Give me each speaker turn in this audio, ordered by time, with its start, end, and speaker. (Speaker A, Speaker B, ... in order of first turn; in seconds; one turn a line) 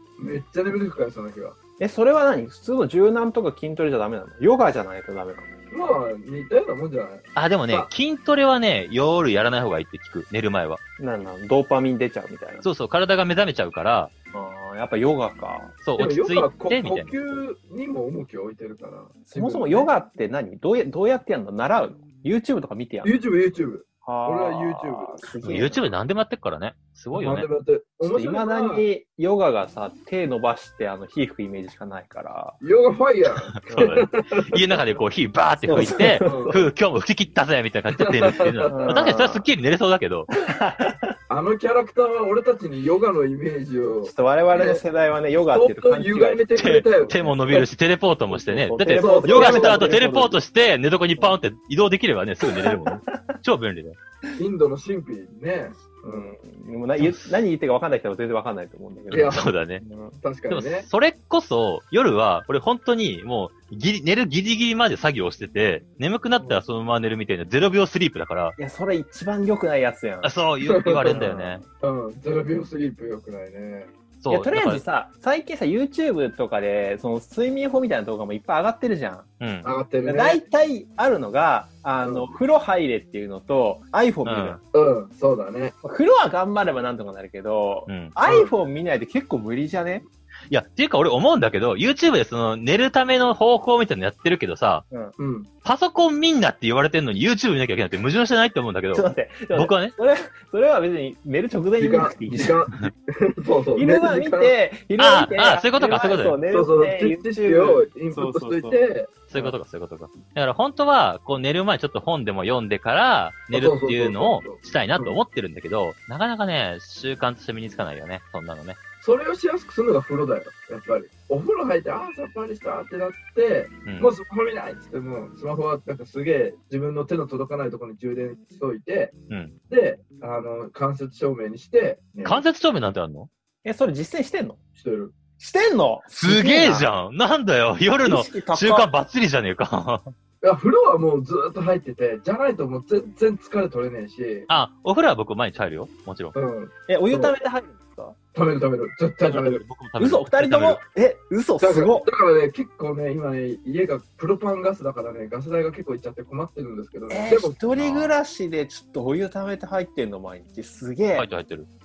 Speaker A: 0.2-1.6
Speaker B: 1.8-5.5
Speaker A: 5.7-7.9
Speaker C: 7.3-10.8
Speaker B: 11.0-12.7
Speaker C: 12.6-14.1
Speaker B: 14.3-15.8
Speaker C: 15.8-17.1
Speaker A: 15.9-19.9
Speaker B: 19.3-23.1
Speaker A: 23.0-25.3
Speaker B: 24.0-25.9
Speaker C: 25.4-27.5
Speaker A: 27.1-28.8
Speaker B: 28.0-32.6
Speaker A: 32.6-34.8
Speaker C: 33.6-40.3
Speaker B: 33.7-33.9
Speaker B: 35.6-36.6
Speaker A: 36.2-36.6
Speaker A: 38.0-39.0
Speaker B: 38.7-39.5
Speaker B: 40.3-41.1
Speaker A: 41.3-44.8
Speaker B: 44.0-47.3
Speaker A: 45.5-47.6
Speaker C: 46.5-54.0
Speaker B: 48.3-50.4
Speaker A: 48.9-50.0
Speaker B: 52.5-53.4
Speaker A: 54.4-56.3
Speaker B: 56.0-60.2
Speaker C: 57.0-57.3
Speaker A: 59.1-59.5
Speaker C: 59.1-59.8
Speaker A: 60.2-60.9
Speaker C: 60.5-68.5
Speaker A: 66.4-66.6
Speaker B: 68.6-70.3
Speaker C: 70.2-71.6
Speaker A: 70.6-71.2
Speaker B: 71.0-71.6
Speaker A: 71.8-73.9
Speaker C: 74.2-74.8
Speaker B: 74.3-79.3
Speaker C: 79.4-79.7
Speaker A: 79.6-80.4
Speaker B: 80.0-84.6
Speaker A: 82.0-82.3
Speaker C: 84.2-84.6
Speaker A: 84.7-85.7
Speaker B: 85.8-90.0
Speaker C: 87.9-88.1
Speaker A: 88.2-88.5
Speaker C: 90.5-94.8
Speaker A: 95.2-95.5
Speaker C: 95.6-99.9
Speaker B: 98.9-102.6
Speaker A: 101.8-104.5
Speaker B: 103.8-108.8
Speaker C: 105.0-106.4
Speaker A: 106.5-109.1
Speaker C: 109.3-118.8
Speaker A: 113.5-115.2
Speaker A: 119.0-129.1
Speaker C: 123.8-124.1
Speaker A: 129.7-132.4
Speaker C: 132.2-133.3
Speaker B: 133.6-134.6
Speaker A: 134.8-135.1
Speaker B: 135.4-136.9
Speaker C: 136.2-140.1
Speaker B: 138.0-138.9
Speaker A: 140.4-144.5
Speaker C: 144.5-146.3
Speaker A: 146.3-147.3
Speaker B: 146.9-148.2
Speaker A: 148.3-149.6
Speaker C: 149.2-150.8
Speaker B: 150.0-152.1
Speaker A: 151.6-157.6
Speaker B: 157.1-161.3
Speaker C: 157.7-158.1
Speaker C: 161.1-161.7